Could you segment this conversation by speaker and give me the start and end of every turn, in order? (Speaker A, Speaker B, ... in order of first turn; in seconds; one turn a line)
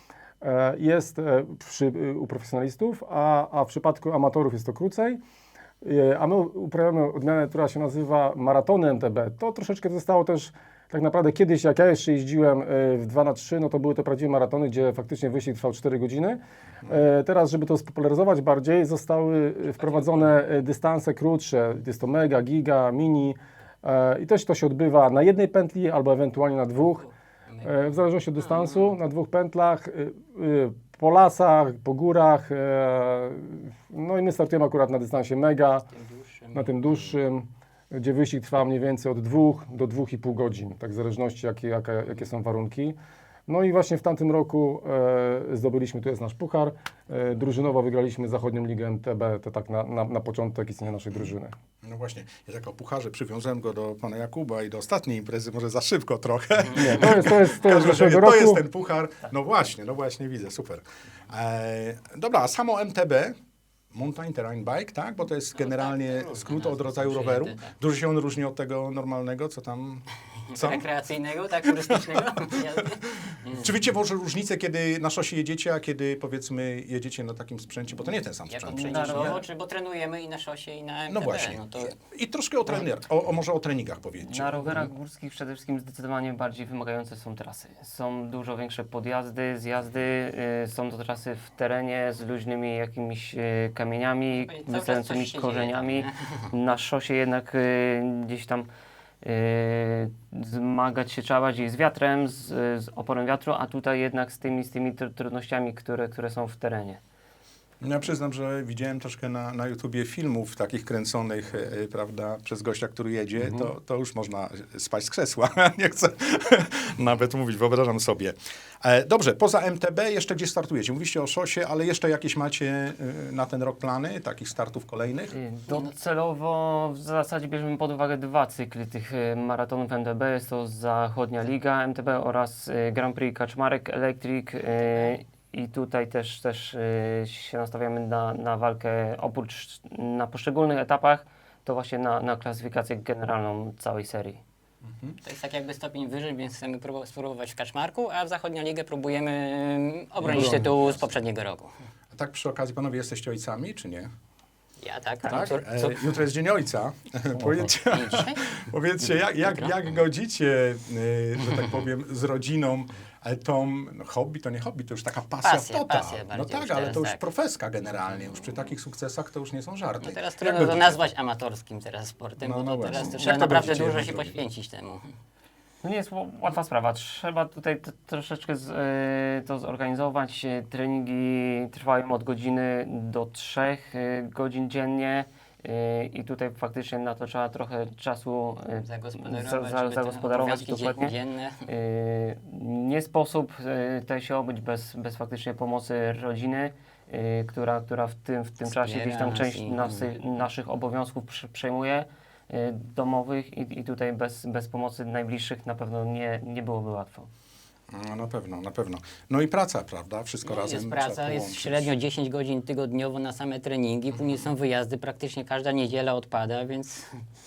Speaker A: 0.4-5.2
Speaker A: 5.8-27.1
Speaker B: 19.8-20.3
Speaker A: 27.6-35.9
Speaker B: 28.4-28.9
Speaker B: 35.9-37.1
Speaker A: 36.5-43.0
Speaker A: 43.5-51.5
Speaker C: 51.8-63.3
Speaker A: 56.7-58.6
Speaker C: 63.9-79.4
Speaker B: 65.5-67.7
Speaker B: 70.5-73.7
Speaker B: 78.5-82.0
Speaker D: 78.7-79.4
Speaker C: 81.1-84.8
Speaker D: 84.2-98.7
Speaker B: 94.3-96.5
Speaker D: 99.2-107.0
Speaker C: 107.8-125.4
Speaker D: 125.3-144.4
Speaker B: 125.7-125.9
Speaker B: 134.7-135.2
Speaker C: 144.8-145.2
Speaker B: 145.2-151.7
Speaker C: 150.2-151.2
Speaker A: 150.3-150.6
Speaker C: 152.1-154.1
Speaker B: 154.8-156.2
Speaker C: 155.2-171.0
Speaker A: 157.4-157.8
Speaker B: 157.8-158.5
Speaker B: 159.4-159.7
Speaker B: 165.4-167.2
Speaker B: 170.0-175.1
Speaker C: 172.4-174.4
Speaker D: 175.8-207.3
Speaker B: 188.7-191.7
Speaker B: 198.6-200.2
Speaker C: 207.9-211.9
Speaker B: 210.4-217.2